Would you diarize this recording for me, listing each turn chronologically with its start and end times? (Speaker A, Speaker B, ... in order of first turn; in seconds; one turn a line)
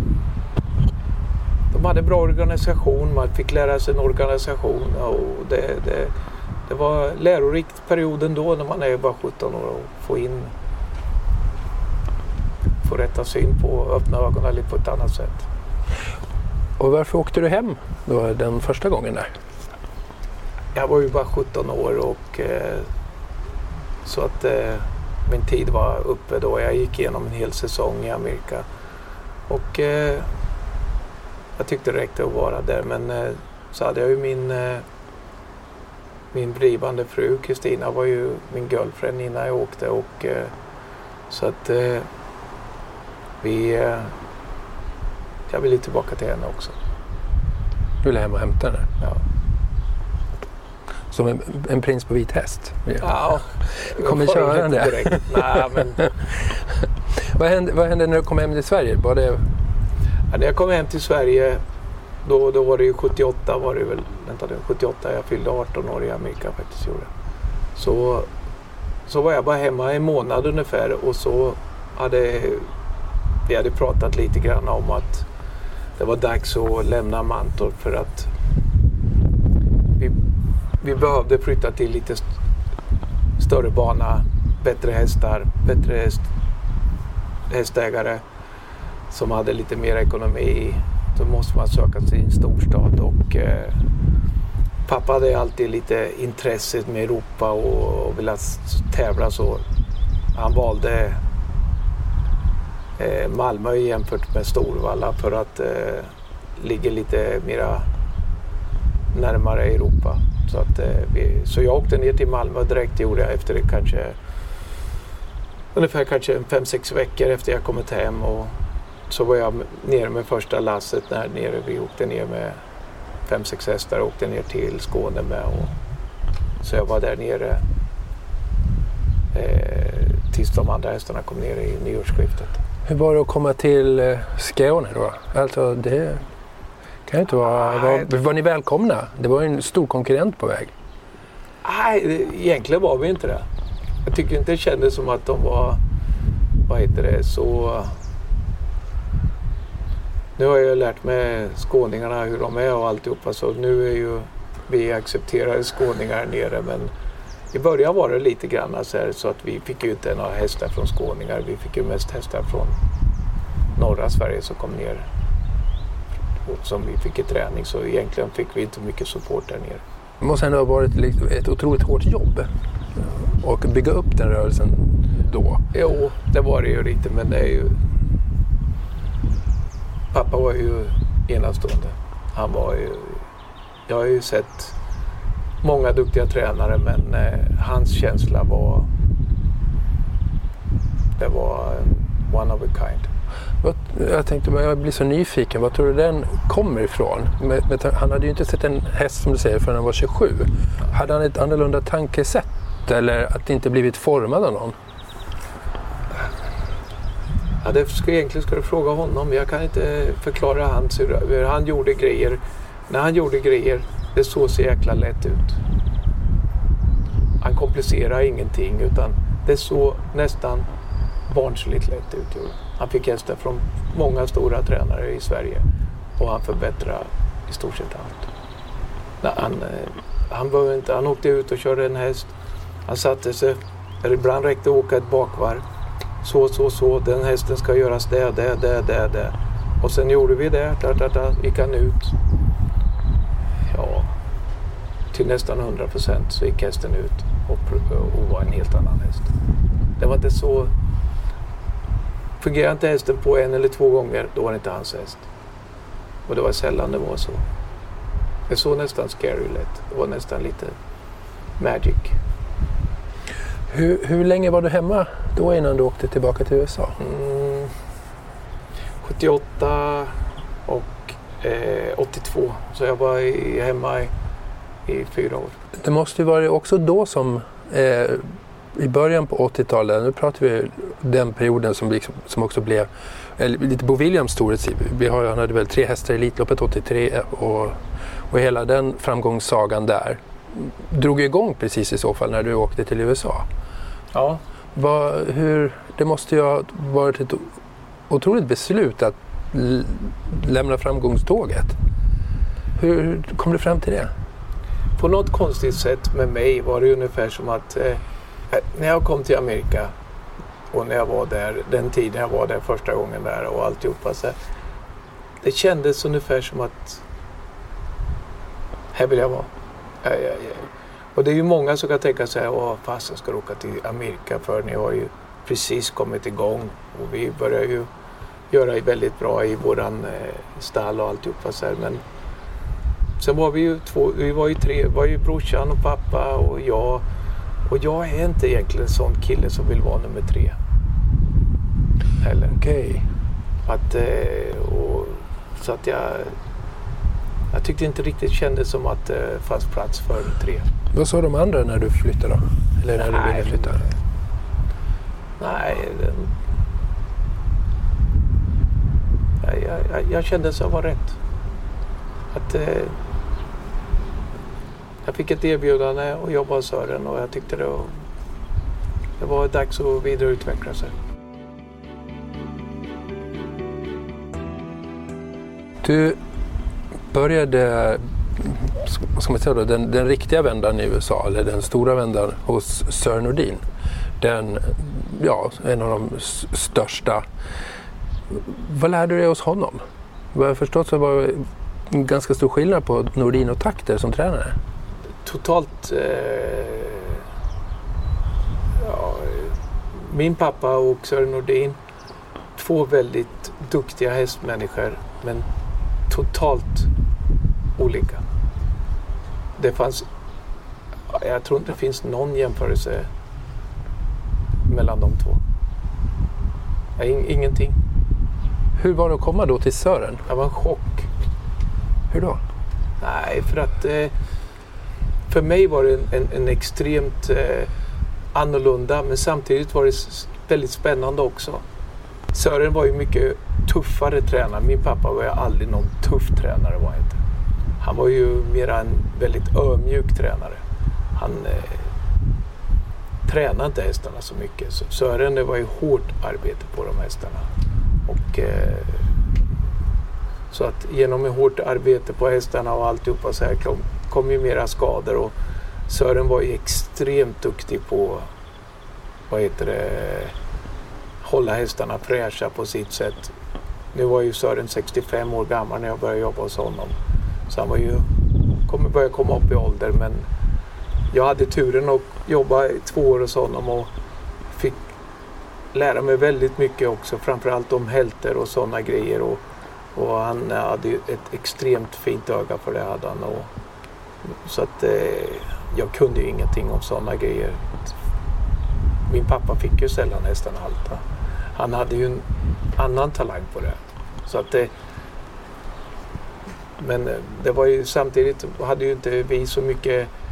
Speaker A: 1.7-6.1
Speaker A: 6.7-10.5
Speaker A: 12.8-15.5
Speaker B: 16.8-19.3
Speaker A: 20.8-22.9
Speaker A: 24.0-28.7
Speaker A: 29.5-30.3
Speaker A: 31.6-34.8
Speaker A: 36.3-40.5
Speaker A: 41.3-42.1
Speaker A: 43.4-44.1
Speaker A: 45.5-46.8
Speaker B: 48.0-48.9
Speaker B: 51.1-53.1
Speaker A: 53.0-56.1
Speaker B: 53.7-55.8
Speaker B: 56.4-59.4
Speaker A: 60.3-61.6
Speaker A: 62.2-67.1
Speaker A: 67.8-68.3
Speaker A: 69.1-72.7
Speaker A: 73.5-75.3
Speaker A: 76.0-78.3
Speaker A: 80.8-82.3
Speaker A: 83.4-86.3
Speaker A: 87.5-88.2
Speaker A: 89.1-93.8
Speaker A: 94.9-99.6
Speaker A: 100.3-101.2
Speaker A: 103.0-107.9
Speaker A: 109.1-114.2
Speaker A: 115.7-118.5
Speaker A: 119.1-122.6
Speaker A: 123.2-125.8
Speaker A: 126.6-127.6
Speaker A: 129.3-132.6
Speaker B: 132.9-136.3
Speaker B: 137.1-140.7
Speaker A: 137.4-138.1
Speaker A: 141.6-143.5
Speaker A: 144.1-145.8
Speaker A: 146.7-147.9
Speaker A: 150.4-156.9
Speaker A: 157.5-162.8
Speaker A: 163.8-165.1
Speaker A: 166.4-169.8
Speaker B: 170.2-175.6
Speaker A: 175.7-177.8
Speaker A: 180.1-183.2
Speaker A: 183.9-184.8
Speaker A: 185.6-188.9
Speaker A: 191.2-193.1
Speaker B: 193.6-204.8
Speaker A: 207.6-215.6
Speaker A: 217.4-220.7
Speaker A: 221.3-225.6
Speaker A: 226.2-228.3
Speaker A: 229.2-232.3
Speaker A: 232.9-235.6
Speaker A: 236.2-242.1
Speaker A: 243.7-244.1
Speaker A: 245.1-249.3
Speaker A: 250.0-250.7
Speaker A: 252.4-255.2
Speaker A: 256.3-257.4
Speaker A: 258.5-260.8
Speaker A: 261.6-262.2
Speaker B: 263.7-267.0
Speaker A: 267.0-267.7
Speaker A: 269.0-274.1
Speaker A: 274.9-275.6
Speaker B: 275.8-293.5
Speaker A: 294.1-294.4
Speaker B: 294.7-297.5
Speaker B: 298.1-301.8
Speaker B: 302.8-304.1
Speaker A: 305.0-309.9
Speaker A: 310.7-314.4
Speaker A: 315.4-317.0
Speaker A: 318.9-319.5
Speaker A: 320.0-327.9
Speaker A: 328.5-332.0
Speaker A: 333.2-337.1
Speaker A: 337.7-340.6
Speaker A: 342.2-342.6
Speaker B: 342.5-343.1
Speaker A: 343.7-346.4
Speaker A: 347.5-350.7
Speaker B: 350.9-353.8
Speaker A: 353.0-353.9
Speaker A: 355.4-356.3
Speaker A: 359.4-361.2
Speaker A: 362.3-362.9
Speaker A: 365.0-367.9
Speaker A: 369.2-370.9
Speaker B: 375.8-376.2
Speaker B: 377.1-383.6
Speaker B: 384.2-387.2
Speaker B: 388.3-389.8
Speaker B: 390.3-394.6
Speaker A: 395.2-397.2
Speaker A: 398.8-401.8
Speaker A: 402.6-405.5
Speaker A: 406.1-406.9
Speaker A: 407.8-408.2
Speaker A: 409.6-410.1
Speaker A: 411.1-413.1
Speaker A: 414.7-415.4
Speaker A: 417.0-417.8
Speaker B: 418.8-420.2
Speaker A: 420.3-421.1
Speaker B: 422.1-422.4
Speaker A: 423.0-424.1
Speaker A: 425.3-427.7
Speaker A: 428.3-431.6
Speaker A: 432.3-437.2
Speaker A: 437.8-440.6
Speaker A: 441.1-441.9
Speaker A: 443.3-447.5
Speaker A: 448.1-449.0
Speaker A: 450.5-455.3
Speaker A: 455.9-458.3
Speaker A: 459.3-460.3
Speaker A: 461.2-463.3
Speaker A: 463.9-467.0
Speaker A: 467.5-468.1
Speaker A: 468.7-470.3
Speaker A: 471.1-473.9
Speaker A: 474.5-474.8
Speaker A: 475.7-479.4
Speaker A: 479.9-483.5
Speaker A: 484.3-487.9
Speaker A: 489.1-491.0
Speaker A: 491.5-494.7
Speaker A: 496.8-500.1